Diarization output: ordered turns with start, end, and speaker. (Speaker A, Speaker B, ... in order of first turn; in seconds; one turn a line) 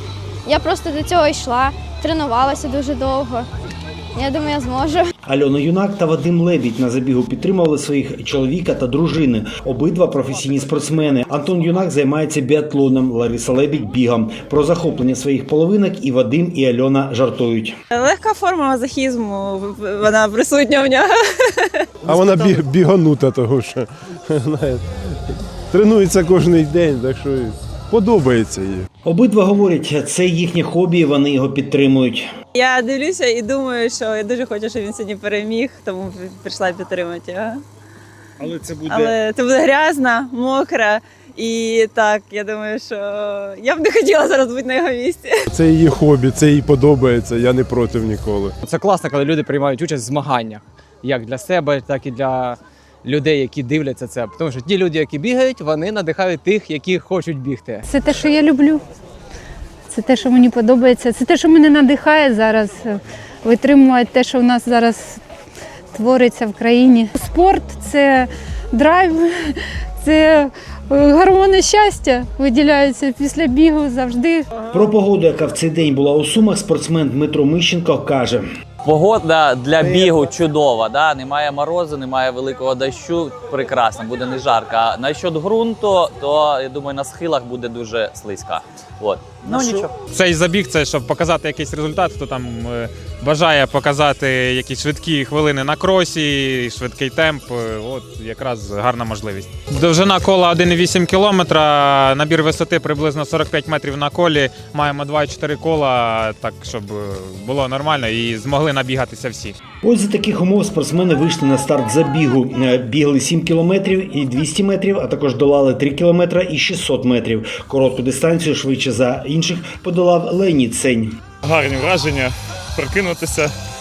Speaker A: 0.5-3.5
Speaker A: 4.2-5.1
Speaker B: 5.2-17.8
Speaker C: 17.9-21.1
Speaker D: 22.0-24.8
Speaker D: 25.7-28.9
Speaker B: 29.0-32.3
Speaker C: 32.5-37.5
Speaker B: 38.4-39.1
Speaker C: 38.9-45.3
Speaker D: 45.5-48.5
Speaker E: 48.6-57.8
Speaker F: 57.8-58.8
Speaker F: 59.9-65.2
Speaker F: 65.9-74.5
Speaker B: 74.7-78.4
Speaker G: 78.8-89.9
Speaker B: 89.5-89.8
Speaker H: 90.1-109.5
Speaker B: 109.8-121.1
Speaker I: 121.4-123.5